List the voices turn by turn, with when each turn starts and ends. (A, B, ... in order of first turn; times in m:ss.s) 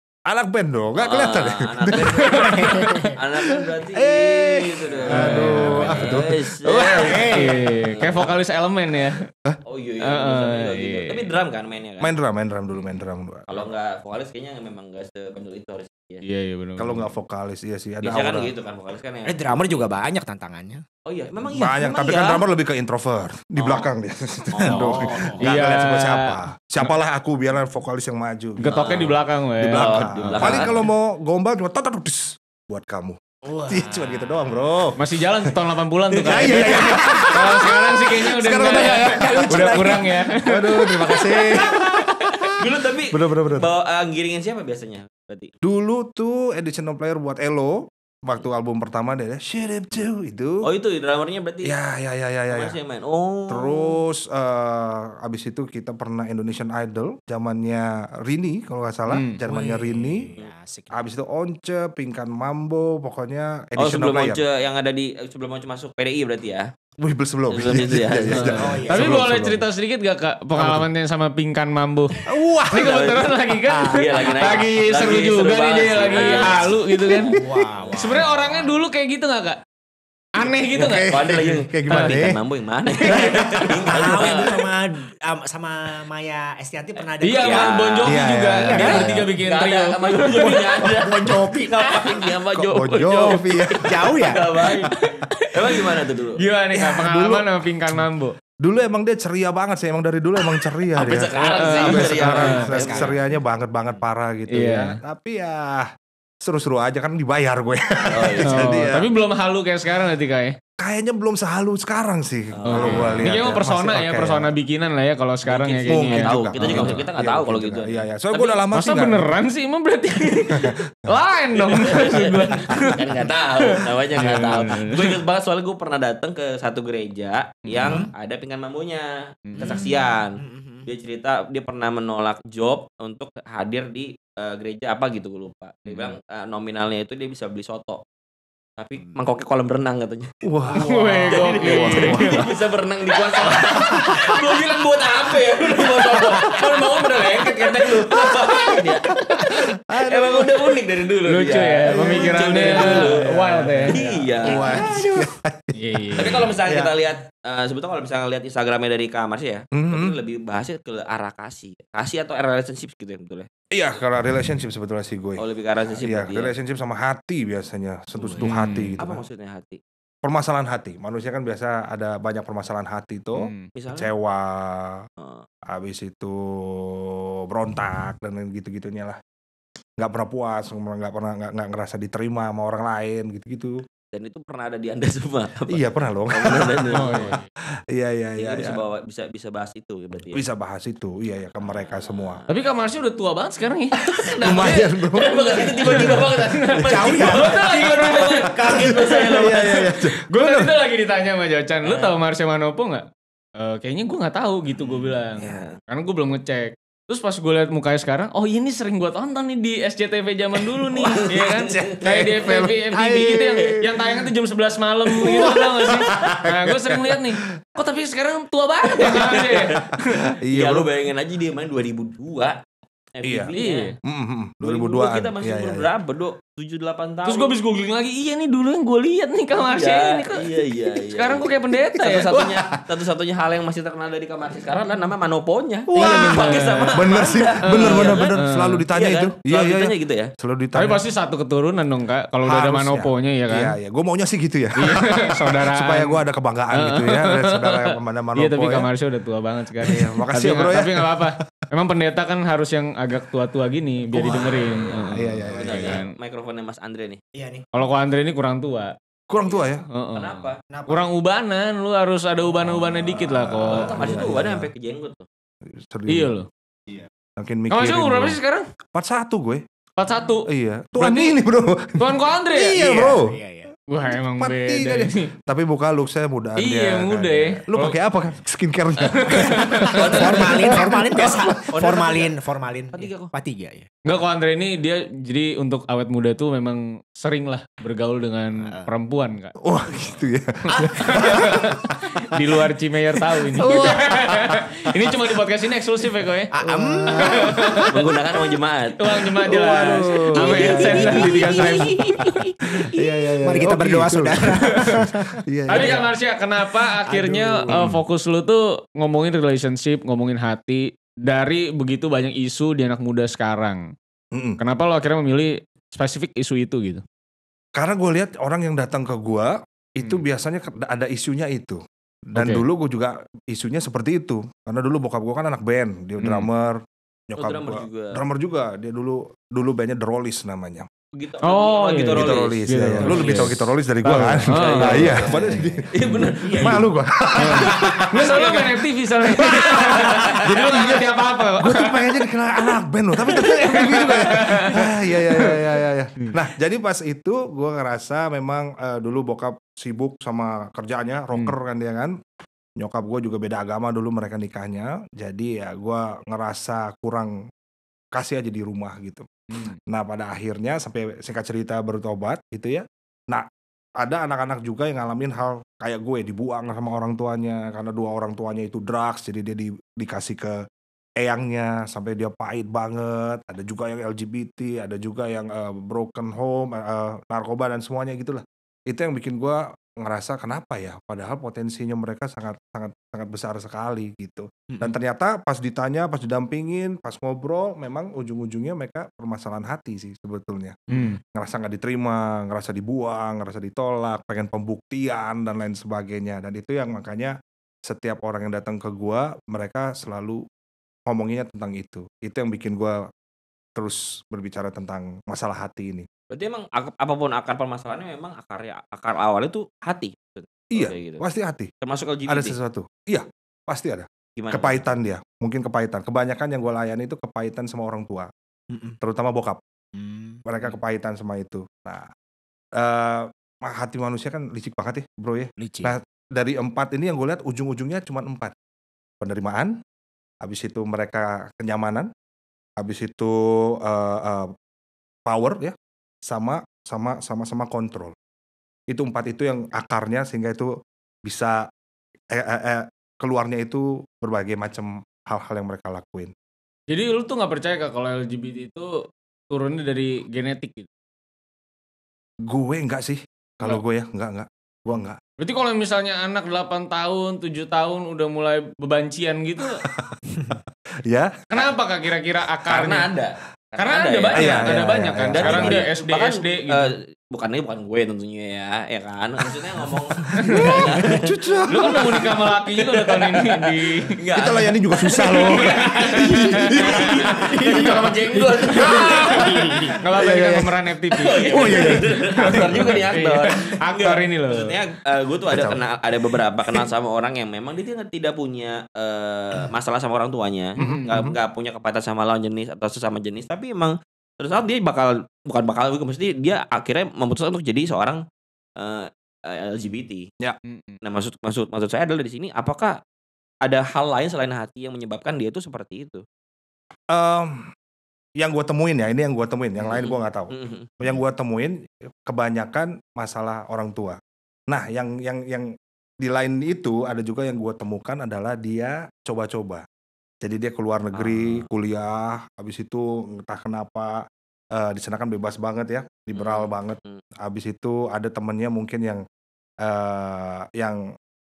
0:00.3-0:03.0 A
0:01.0-0:08.4 B
0:02.5-0:03.1 C
0:03.9-0:07.3 A
0:05.1-0:06.0 C
0:05.1-0:06.2 D
0:06.8-0:07.5 C
0:07.2-0:09.2 D
0:09.6-0:12.1 B
0:10.0-0:11.3 D
0:12.0-0:13.7 A
0:13.5-0:16.2 B
0:16.2-0:17.0 D
0:16.8-0:18.5 A
0:18.0-0:19.4 B
0:19.2-0:20.8 C
0:21.0-0:22.4 B
0:21.5-0:29.0 A
0:23.6-0:23.9 B
0:24.5-0:25.4 B
0:24.6-0:25.4 C
0:25.4-0:26.4 D
0:28.6-0:30.6 D
0:28.6-0:30.8 B
0:29.6-0:35.5 A
0:33.4-0:34.8 C
0:35.0-0:41.2 D
0:36.1-0:43.7 A
0:36.4-0:37.2 C
0:38.5-0:40.4 C
0:41.4-0:45.5 B
0:45.6-0:50.7 A
0:50.6-0:51.7 B
0:51.6-0:52.8 A
0:52.5-0:54.0 B
0:53.5-1:00.3 A
0:59.1-0:59.4 D
0:59.4-1:01.1 C
1:00.9-1:04.4 A
1:03.8-1:06.7 B
1:07.0-1:09.6 A
1:07.5-1:08.8 B
1:08.3-1:09.4 C
1:08.9-1:17.4 D
1:10.5-1:10.9 A
1:12.2-1:13.0 A
1:12.7-1:16.7 B
1:14.4-1:14.7 C
1:16.0-1:18.8 C
1:17.3-1:18.3 A
1:18.0-1:19.6 D
1:20.4-1:21.2 D
1:20.7-1:24.7 B
1:20.8-1:22.4 A
1:21.9-1:22.2 D
1:23.1-1:27.8 C
1:23.1-1:24.3 A
1:23.1-1:23.6 D
1:27.2-1:30.7 D
1:27.4-1:28.2 B
1:28.0-1:29.2 A
1:28.5-1:29.1 C
1:28.7-1:35.0 B
1:30.8-1:32.3 C
1:32.6-1:34.1 A
1:33.7-1:34.4 C
1:35.5-1:36.4 B
1:36.4-1:38.4 D
1:36.7-1:38.0 A
1:38.6-1:45.9 A
1:40.9-1:43.2 B
1:41.4-1:42.5 D
1:42.2-1:43.2 C
1:44.5-1:45.0 D
1:46.4-1:49.1 A
1:48.1-1:48.7 B
1:48.4-1:50.6 D
1:50.8-1:54.5 A
1:52.5-1:53.3 B
1:52.7-1:57.0 D
1:55.4-1:58.6 B
1:55.9-1:59.3 A
1:58.7-2:03.1 D
2:00.5-2:00.8 A
2:01.5-2:18.0 B
2:03.8-2:05.2 D
2:04.2-2:04.6 A
2:07.7-2:08.0 D
2:09.4-2:09.9 D
2:09.6-2:10.9 C
2:15.8-2:16.2 D
2:18.8-2:33.3 B
2:20.4-2:22.5 A
2:20.7-2:22.4 D
2:23.7-2:24.3 C
2:25.9-2:26.8 C
2:28.5-2:28.7 C
2:29.5-2:30.8 A
2:31.2-2:34.0 D
2:31.9-2:36.9 A
2:33.9-2:35.1 B
2:34.4-2:35.2 C
2:35.8-2:36.5 D
2:36.2-2:43.5 B
2:39.7-2:40.1 A
2:43.7-2:45.4 A
2:45.4-2:46.5 B
2:46.0-2:49.2 A
2:48.2-2:48.4 B
2:48.4-2:49.0 D
2:49.0-2:49.8 B
2:50.2-2:55.0 A
2:53.4-2:53.7 D
2:53.7-2:54.1 B
2:55.2-2:55.4 B
2:55.6-2:59.2 A
3:00.0-3:03.8 A
3:04.1-3:07.3 B
3:05.7-3:08.8 A
3:06.9-3:07.4 D
3:08.4-3:10.4 B
3:10.3-3:12.4 A
3:11.6-3:12.6 B
3:12.5-3:14.8 D
3:14.0-3:19.8 B
3:14.4-3:17.2 A
3:15.3-3:40.3 D
3:16.9-3:17.8 C
3:18.5-3:19.3 C
3:18.6-3:20.7 A
3:21.8-3:22.1 B
3:25.4-3:25.6 A
3:25.4-3:25.7 B
3:30.9-3:32.4 B
3:32.0-3:34.2 A
3:35.2-3:37.4 A
3:38.9-3:39.8 B
3:39.0-3:40.9 A
3:40.5-3:42.6 B
3:43.1-3:43.9 B
3:43.2-3:43.5 A
3:43.6-3:43.9 D
3:44.0-3:45.9 A
3:44.6-3:47.6 B
3:47.2-3:52.3 D
3:49.6-3:58.4 B
3:52.3-3:52.8 A
3:55.9-4:01.0 A
3:56.0-3:56.3 C
3:56.0-3:56.9 D
3:57.7-3:58.8 D
3:58.9-4:00.3 B
4:00.8-4:03.8 D
4:02.4-4:08.9 A
4:04.8-4:06.2 D
4:06.7-4:16.1 D
4:09.8-4:11.4 A
4:14.1-4:16.0 A
4:14.1-4:16.0 C
4:14.6-4:17.2 B
4:17.3-4:17.6 C
4:17.7-4:18.9 D
4:19.3-4:19.8 A
4:19.9-4:24.1 D
4:20.1-4:20.6 B
4:20.7-4:21.1 C
4:22.6-4:24.7 A
4:23.7-4:25.2 B
4:25.7-4:26.4 A
4:26.1-4:26.5 D
4:27.4-4:28.4 A
4:27.7-4:28.6 D
4:28.9-4:29.6 A
4:30.0-4:30.5 D
4:30.4-4:33.3 A
4:31.0-4:31.4 D
4:32.0-4:32.8 D
4:32.7-4:33.7 C
4:33.9-4:35.3 D
4:34.1-4:42.2 A
4:36.6-4:38.0 D
4:39.0-4:40.1 D
4:39.8-4:43.9 C
4:39.9-4:40.8 B
4:41.8-4:42.2 B
4:42.9-4:43.3 B
4:44.0-4:49.5 D
4:49.6-4:52.2 A
4:50.8-4:51.5 C
4:51.0-4:56.5 D
4:53.4-4:55.1 A
4:53.6-4:54.0 C
4:56.5-4:57.8 C
4:56.6-4:57.8 A
4:57.2-4:57.9 D
4:57.9-4:59.2 B
4:59.0-5:02.0 D
4:59.4-5:01.2 A
5:00.4-5:06.0 C
5:00.4-5:01.9 B
5:02.8-5:06.0 A
5:04.6-5:05.0 D
5:05.7-5:13.9 D
5:07.0-5:07.8 C
5:07.7-5:08.0 A
5:14.3-5:14.6 A
5:14.6-5:17.0 D
5:17.8-5:30.9 A
5:22.3-5:22.6 D
5:26.2-5:26.5 D
5:27.4-5:28.2 B
5:31.2-5:33.5 B
5:31.4-5:35.2 D
5:32.1-5:35.9 A
5:34.5-5:36.8 B
5:35.2-5:35.8 C
5:36.4-5:36.9 C
5:36.6-5:38.7 A
5:37.4-5:42.2 D
5:37.5-5:37.8 C
5:37.7-5:38.4 B
5:39.3-5:52.1 A
5:39.6-5:40.4 B
5:43.2-5:45.6 D
5:52.8-5:57.4 A
5:58.1-6:03.5 A
5:59.5-5:59.8 D
6:04.0-6:10.6 A
6:11.2-6:37.3 A
6:24.7-6:24.9 C
6:30.9-6:31.2 C
6:30.9-6:31.2 D
6:37.9-6:40.4 A
6:41.1-6:43.1 A
6:43.8-6:46.1 A
6:46.3-6:51.2 B
6:50.7-6:51.7 A
6:51.8-6:52.6 B
6:52.3-6:58.3 A
6:54.4-6:54.8 B
6:58.7-6:59.0 C
6:59.0-6:59.6 A
6:59.9-7:00.4 C
7:00.4-7:02.1 A
7:02.8-7:08.5 A
7:05.6-7:05.9 C
7:09.2-7:09.8 A
7:10.4-7:12.1 A
7:12.8-7:14.5 A
7:15.2-7:15.7 A
7:16.3-7:18.1 A
7:18.9-7:21.7 A
7:22.3-7:26.3 A
7:26.9-7:30.9 D
7:32.4-7:35.2 A
7:35.4-7:39.8 D
7:39.9-7:40.2 A
7:41.1-7:41.4 A
7:41.5-7:43.1 D
7:42.7-7:59.7 B
7:43.8-7:46.9 D
7:44.3-7:45.8 A
7:50.4-7:50.9 D
7:50.4-7:52.3 A
7:51.7-7:54.1 D
7:54.4-8:00.8 A
7:55.2-7:57.0 D
7:58.7-8:04.7 D
8:01.1-8:18.2 B
8:01.5-8:03.0 A
8:05.5-8:05.8 A
8:10.8-8:11.1 D
8:10.8-8:11.4 A
8:18.8-8:20.3 B
8:20.6-8:21.0 D
8:21.0-8:23.0 B
8:23.6-8:26.2 B
8:27.1-8:27.7 A
8:28.4-8:35.7 A
8:29.8-8:30.9 B
8:36.2-8:39.8 A
8:40.4-8:49.2 A
8:41.1-8:41.6 B
8:46.3-8:47.2 B
8:49.8-8:51.0 A